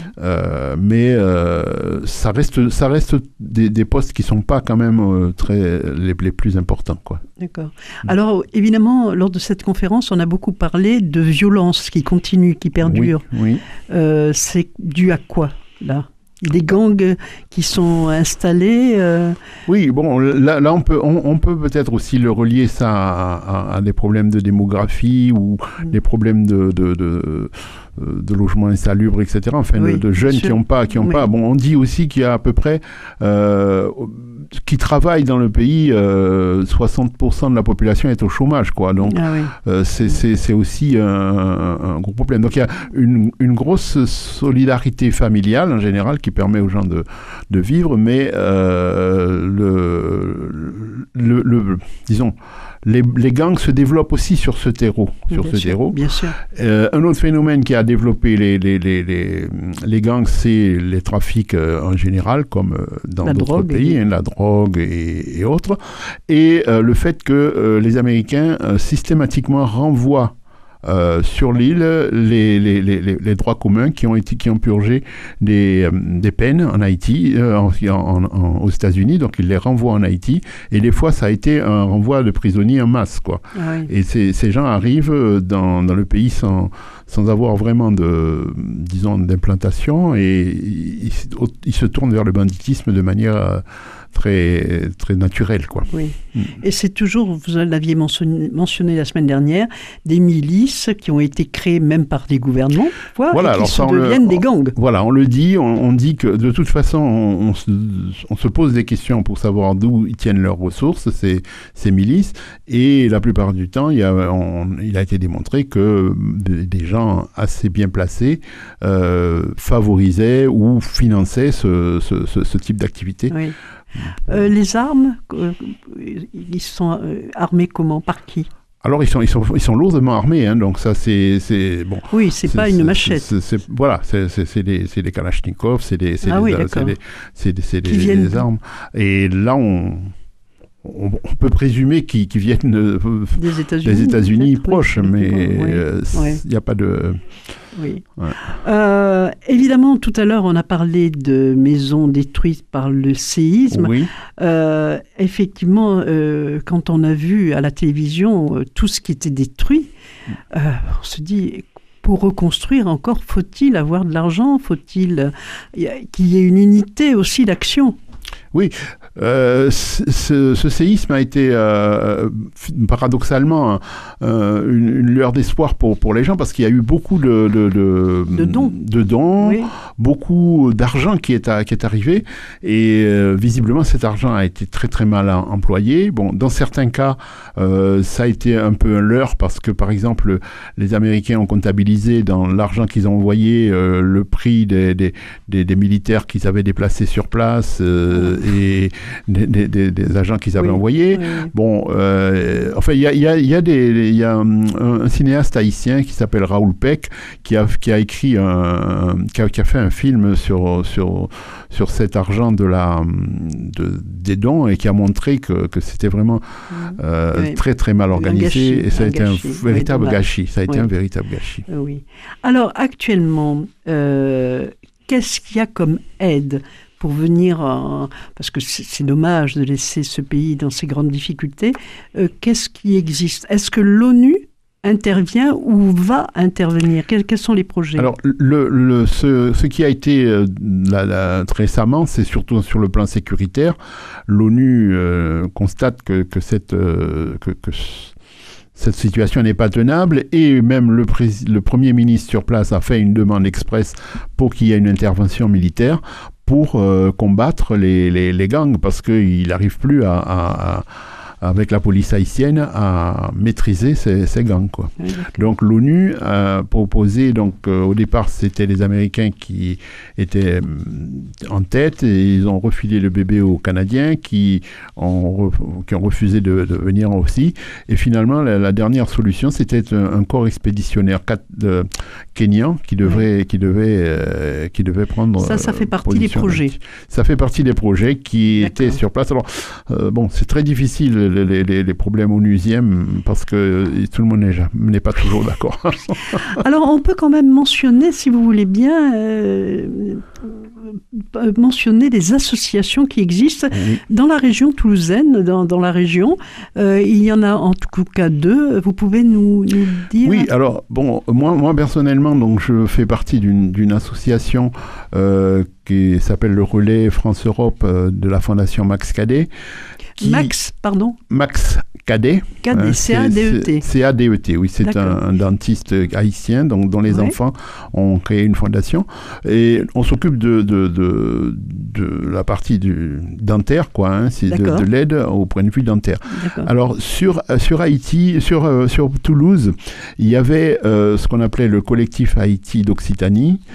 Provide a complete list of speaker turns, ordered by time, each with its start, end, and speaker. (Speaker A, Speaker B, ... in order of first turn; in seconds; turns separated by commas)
Speaker A: 0.2-7.2, Speaker B: 7.4-13.3, Speaker A: 12.8-13.6, Speaker B: 13.9-19.4, Speaker A: 19.7-96.5, Speaker B: 29.7-31.2, Speaker B: 39.1-39.5, Speaker B: 55.3-56.4, Speaker B: 63.2-64.0, Speaker B: 83.5-83.9, Speaker B: 95.9-104.8, Speaker A: 103.3-123.4, Speaker B: 123.3-123.5, Speaker B: 124.3-128.5, Speaker A: 128.8-140.1, Speaker B: 132.1-133.3, Speaker B: 136.2-136.9, Speaker B: 137.8-138.5, Speaker A: 140.8-147.2, Speaker B: 143.3-146.4, Speaker B: 147.8-159.9, Speaker A: 153.7-154.1, Speaker B: 160.5-168.0, Speaker A: 168.5-216.4, Speaker B: 178.3-178.7, Speaker B: 179.4-179.7, Speaker B: 200.6-201.5, Speaker B: 216.8-217.6, Speaker A: 217.0-221.7, Speaker B: 218.1-220.9, Speaker B: 221.7-238.1, Speaker A: 238.0-243.8, Speaker A: 244.3-248.1, Speaker A: 248.8-260.9, Speaker A: 261.4-296.5, Speaker B: 265.0-265.5, Speaker B: 285.4-286.8, Speaker B: 288.6-289.0, Speaker B: 296.5-310.5, Speaker A: 303.7-304.0, Speaker A: 310.2-319.5, Speaker B: 320.2-321.2, Speaker A: 320.2-320.5, Speaker A: 321.3-343.6, Speaker B: 322.6-323.9, Speaker B: 324.8-325.2, Speaker B: 327.1-327.4, Speaker B: 334.5-334.9, Speaker B: 336.3-336.7